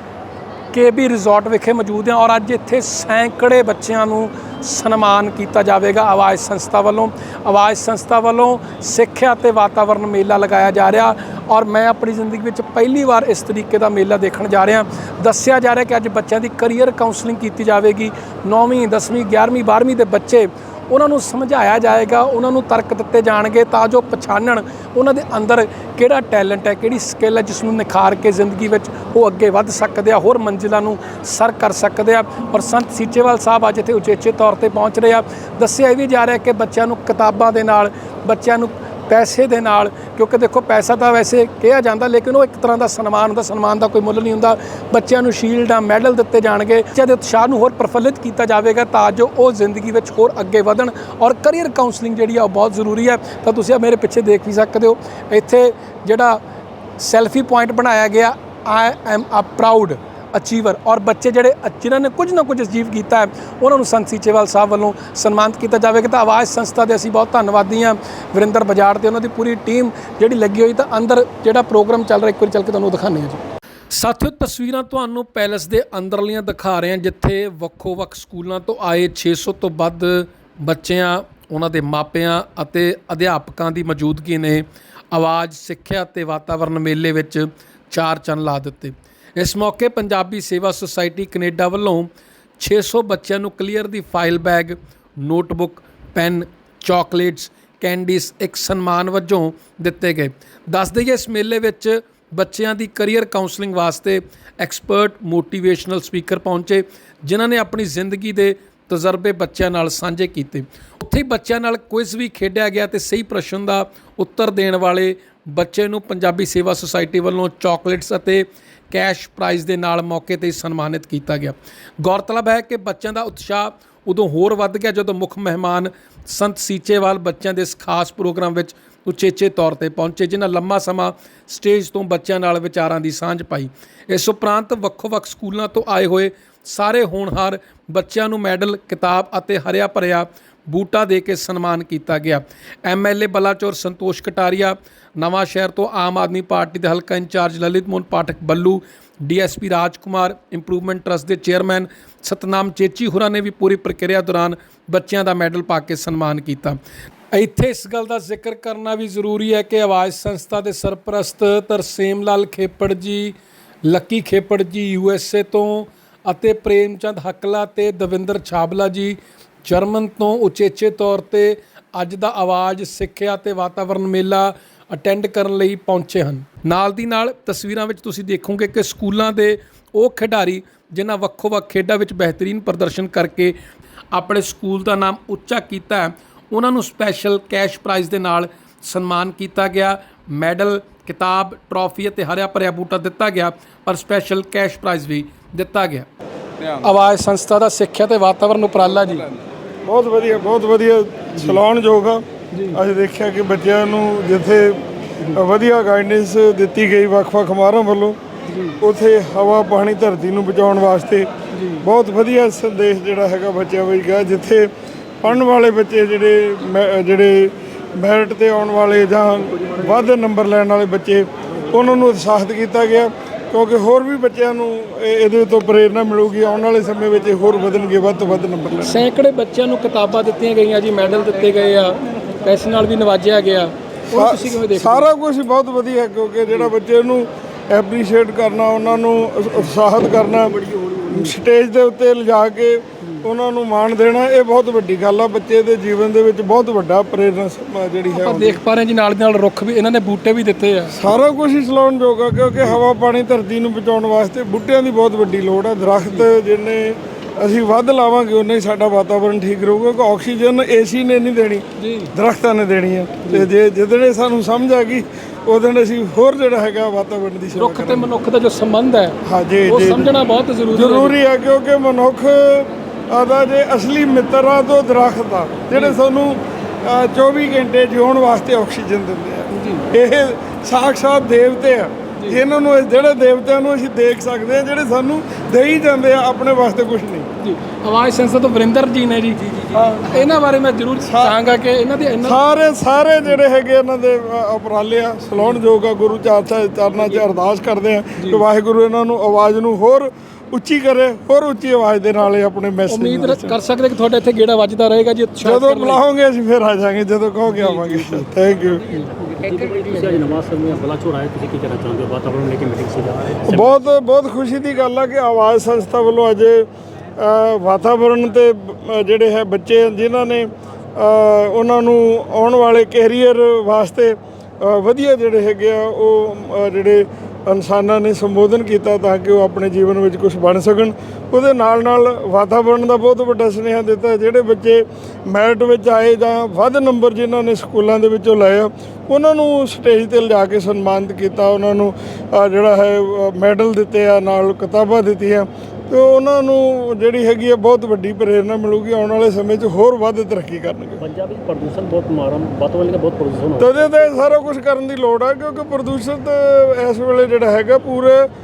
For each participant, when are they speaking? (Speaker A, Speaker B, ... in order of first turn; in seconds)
Speaker A: 0.7-56.4, 57.0-156.8, 157.3-183.5, 184.1-196.1, 196.8-199.2, 202.5-202.8, 208.5-208.8, 211.5-211.8, 228.8-235.1, 248.1-250.9, 261.8-262.1, 267.6-271.1, 279.5-279.8, 287.4-292.4, 298.2-298.4, 302.9-306.0, 307.5-308.3
Speaker B: 199.8-208.2, 208.8-211.3, 211.8-214.7, 215.2-229.0, 234.1-248.6, 250.9-268.1, 269.2-270.1, 270.7-287.3, 291.0-291.4, 292.2-303.6, 305.4-308.8, 313.4-351.0, 353.6-358.3
Speaker C: 309.4-313.7, 351.0-353.9